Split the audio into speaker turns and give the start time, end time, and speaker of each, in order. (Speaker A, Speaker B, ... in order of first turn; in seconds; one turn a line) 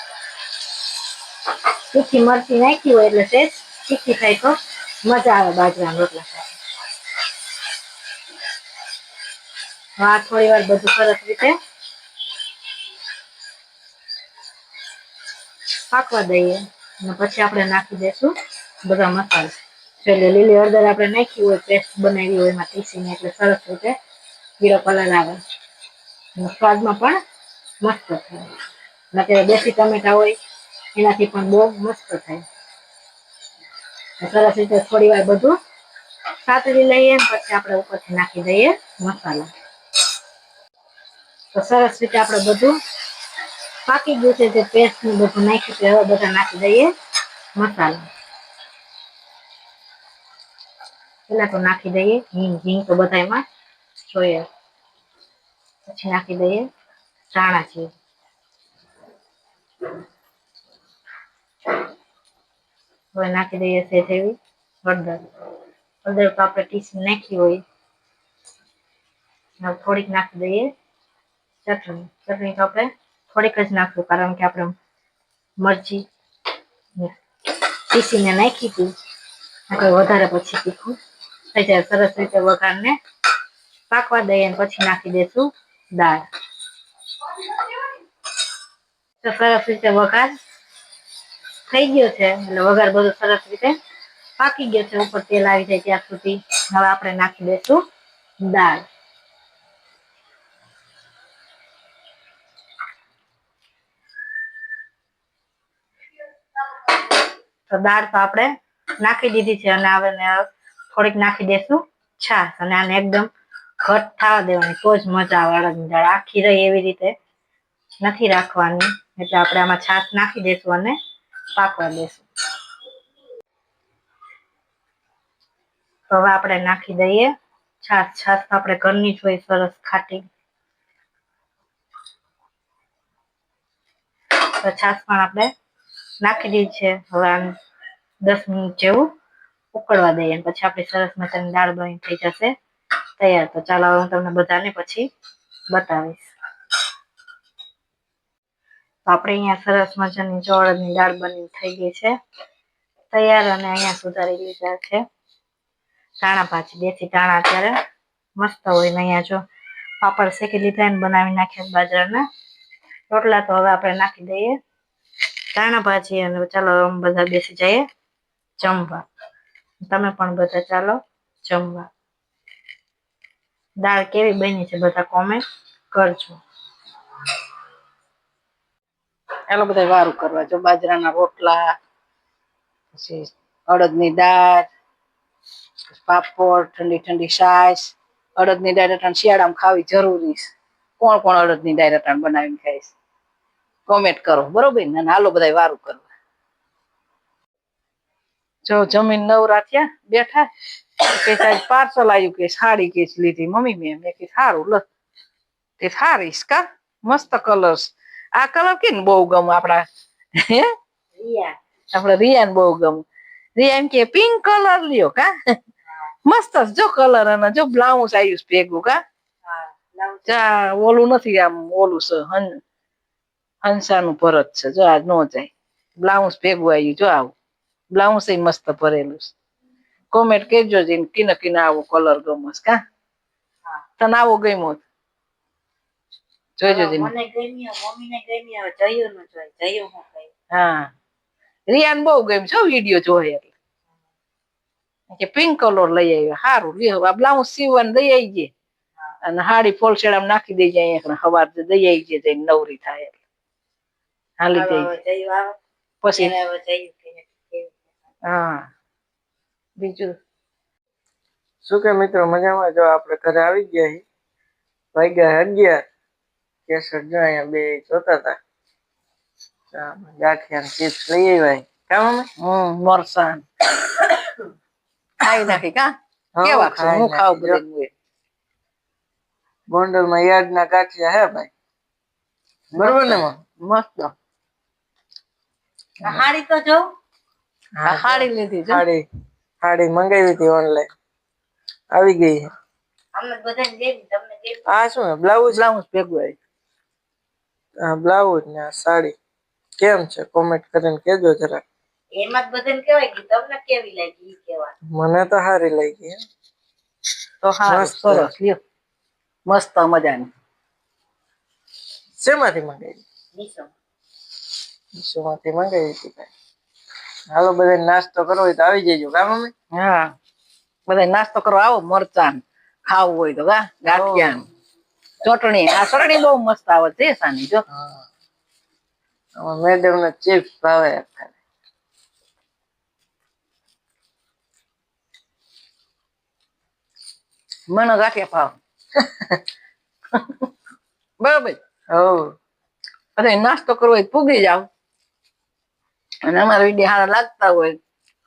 Speaker A: 1.9-6.5
Speaker A: 10.0-11.6
Speaker A: 15.9-18.3
Speaker A: 18.9-24.0
Speaker A: 24.6-25.4
Speaker A: 26.4-27.2
Speaker A: 27.8-28.5
Speaker A: 29.1-30.4
Speaker A: 31.0-32.4
Speaker A: 34.2-35.6
Speaker A: 36.5-39.5
Speaker A: 41.5-42.8
Speaker A: 43.9-46.9
Speaker A: 47.6-48.0
Speaker A: 51.3-53.4
Speaker A: 54.1-54.5
Speaker A: 55.9-56.7
Speaker A: 57.3-57.9
Speaker A: 63.1-65.2
Speaker A: 66.0-67.6
Speaker A: 69.6-70.7
Speaker A: 71.6-74.8
Speaker A: 75.6-76.1
Speaker A: 77.9-78.9
Speaker A: 79.7-81.0
Speaker A: 81.5-83.0
Speaker A: 83.9-86.2
Speaker A: 89.2-90.3
Speaker A: 91.7-93.8
Speaker A: 94.4-97.8
Speaker A: 98.4-98.8
Speaker A: 107.7-113.3
Speaker A: 113.8-117.1
Speaker A: 118.0-121.0
Speaker A: 121.6-122.3
Speaker A: 126.1-127.3
Speaker A: 127.8-130.2
Speaker A: 134.6-135.5
Speaker A: 136.2-137.5
Speaker A: 138.2-139.1
Speaker A: 139.7-142.5
Speaker A: 143.2-145.1
Speaker A: 145.7-146.3
Speaker A: 149.1-152.2
Speaker A: 153.1-155.0
Speaker A: 156.2-157.7
Speaker A: 158.4-159.4
Speaker A: 160.0-162.2
Speaker A: 163.1-164.6
Speaker A: 165.5-167.8
Speaker A: 168.6-169.0
Speaker A: 169.8-171.9
Speaker A: 173.8-176.4
Speaker B: 179.5-181.7
Speaker B: 182.9-184.7
Speaker B: 185.9-192.9
Speaker B: 193.9-196.1
Speaker B: 198.7-200.5
Speaker B: 201.0-204.8
Speaker B: 205.8-209.8
Speaker B: 210.4-210.7
Speaker A: 211.2-211.6
Speaker B: 211.9-213.0
Speaker B: 213.6-215.6
Speaker B: 216.3-219.0
Speaker A: 219.5-220.4
Speaker B: 220.3-222.5
Speaker B: 223.6-227.3
Speaker B: 227.9-229.3
Speaker B: 230.1-232.8
Speaker B: 234.0-234.8
Speaker B: 236.6-237.1
Speaker A: 236.7-240.3
Speaker B: 240.5-240.9
Speaker B: 241.7-243.5
Speaker B: 245.1-248.5
Speaker B: 249.2-253.2
Speaker B: 254.4-254.9
Speaker A: 254.5-255.5
Speaker B: 256.0-256.4
Speaker A: 256.1-257.8
Speaker B: 258.3-258.7
Speaker B: 259.8-260.2
Speaker C: 261.6-264.0
Speaker C: 264.9-265.8
Speaker C: 266.7-268.4
Speaker C: 269.7-272.3
Speaker B: 272.4-273.9
Speaker B: 275.2-275.9
Speaker C: 276.4-277.6
Speaker B: 276.4-277.9
Speaker C: 279.7-281.5
Speaker B: 282.7-284.1
Speaker C: 282.8-283.4
Speaker A: 286.0-286.9
Speaker C: 287.8-289.1
Speaker B: 287.9-288.8
Speaker C: 289.6-290.9
Speaker C: 291.9-292.4
Speaker A: 293.1-294.6
Speaker C: 294.7-295.6
Speaker B: 295.5-296.4
Speaker C: 297.8-299.2
Speaker C: 299.8-301.6
Speaker A: 302.1-304.7
Speaker C: 304.9-306.2
Speaker C: 307.4-308.3
Speaker B: 307.6-308.6
Speaker B: 309.5-310.3
Speaker C: 312.2-313.0
Speaker A: 313.4-313.7
Speaker C: 314.9-316.3
Speaker C: 317.3-319.5
Speaker B: 319.7-320.1
Speaker B: 320.9-324.5
Speaker C: 323.9-324.4
Speaker B: 325.2-327.6
Speaker C: 327.7-328.0
Speaker C: 329.4-331.3
Speaker B: 337.7-338.6
Speaker C: 339.0-339.4
Speaker B: 340.2-340.4
Speaker B: 341.2-341.6
Speaker C: 341.9-342.4
Speaker B: 343.2-344.7
Speaker B: 346.2-347.8